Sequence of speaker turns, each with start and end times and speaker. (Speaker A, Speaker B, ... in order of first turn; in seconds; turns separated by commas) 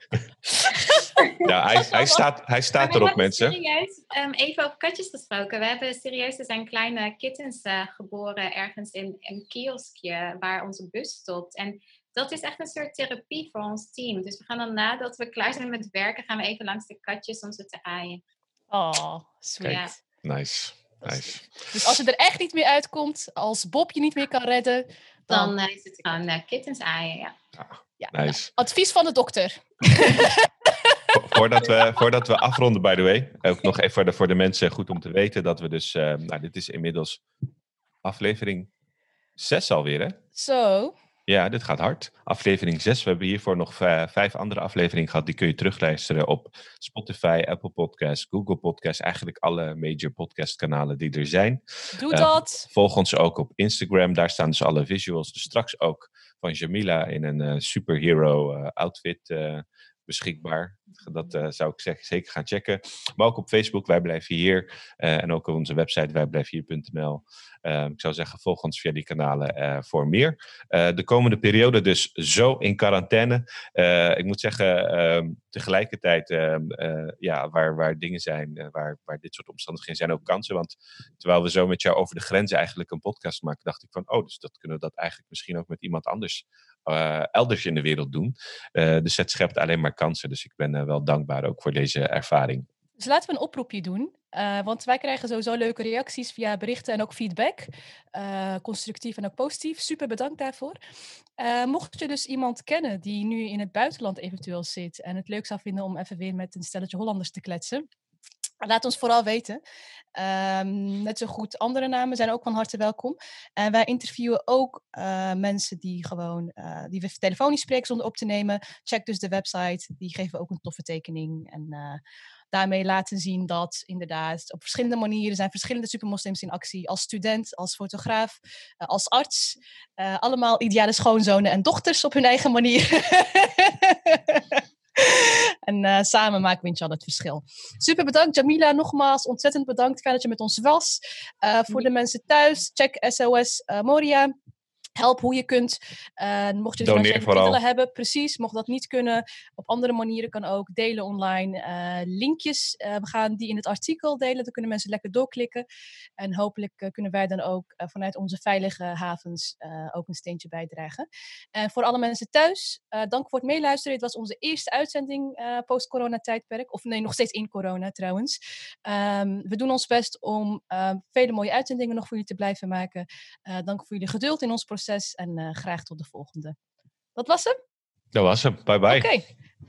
Speaker A: 0.6-1.1, Speaker B: 1.2-1.5, Speaker C: 1.4-3.6, Speaker A: 1.8-2.2, Speaker B: 2.8-18.2, Speaker A: 18.7-19.9, Speaker B: 19.6-19.9, Speaker C: 19.6-21.8, Speaker A: 21.0-25.5, Speaker B: 25.3-27.3, Speaker C: 27.6-28.5, Speaker A: 28.0-31.0, Speaker C: 31.1-37.2, Speaker C: 38.0-38.7, Speaker C: 39.4-40.2, Speaker A: 40.3-40.9, Speaker C: 41.3-92.7, Speaker A: 51.9-52.7, Speaker A: 93.0-100.8, Speaker A: 101.4-107.8, Speaker A: 108.6-109.6, Speaker A: 110.2-122.0, Speaker A: 122.5-144.3, Speaker A: 145.0-155.6, Speaker C: 146.8-147.6, Speaker A: 156.2-176.6, Speaker A: 177.2-177.6, Speaker C: 178.1-179.1, Speaker A: 178.9-179.3